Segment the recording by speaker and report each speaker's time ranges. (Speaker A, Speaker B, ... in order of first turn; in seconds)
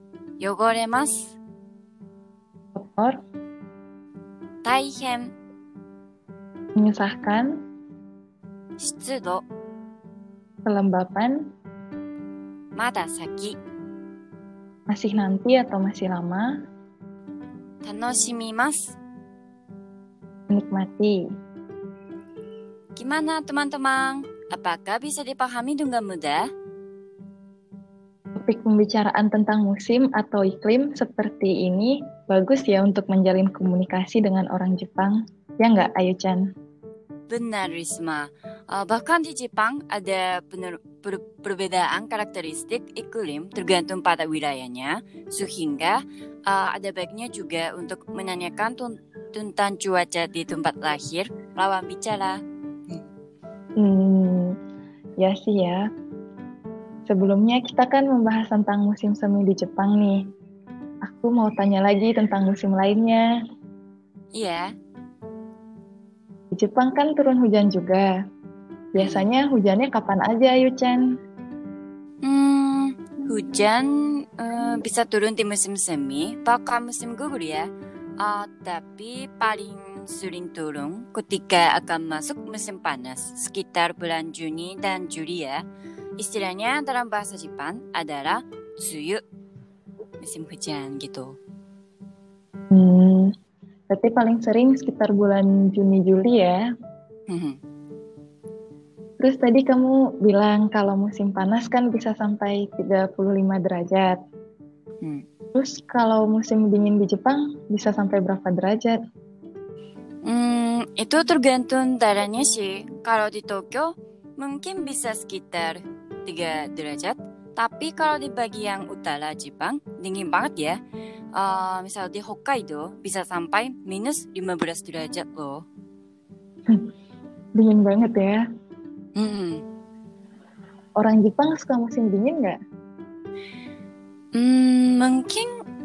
Speaker A: 0.4-1.4, 4.6-5.3, 8.8-9.4, 12.8-13.6, 17.9-19.0, 23.0-26.4, 37.3-52.4, 64.3-64.7, 69.0-69.3, 72.2-77.7, 78.2-85.6, 86.2-89.2, 90.2-91.4, 97.3-97.6, 110.2-120.8, 121.4-125.6, 129.2-129.6, 134.3-135.5
Speaker B: 2.8-3.2, 6.8-7.5, 10.7-11.4, 14.9-16.5, 20.5-21.2, 28.4-36.5, 53.8-54.5, 55.2-55.8, 57.1-60.2, 61.0-63.3, 66.5-68.1, 68.9-71.0, 92.7-93.3, 93.9-96.6, 99.2-104.2, 105.5-109.0, 127.6-128.4, 131.0-132.6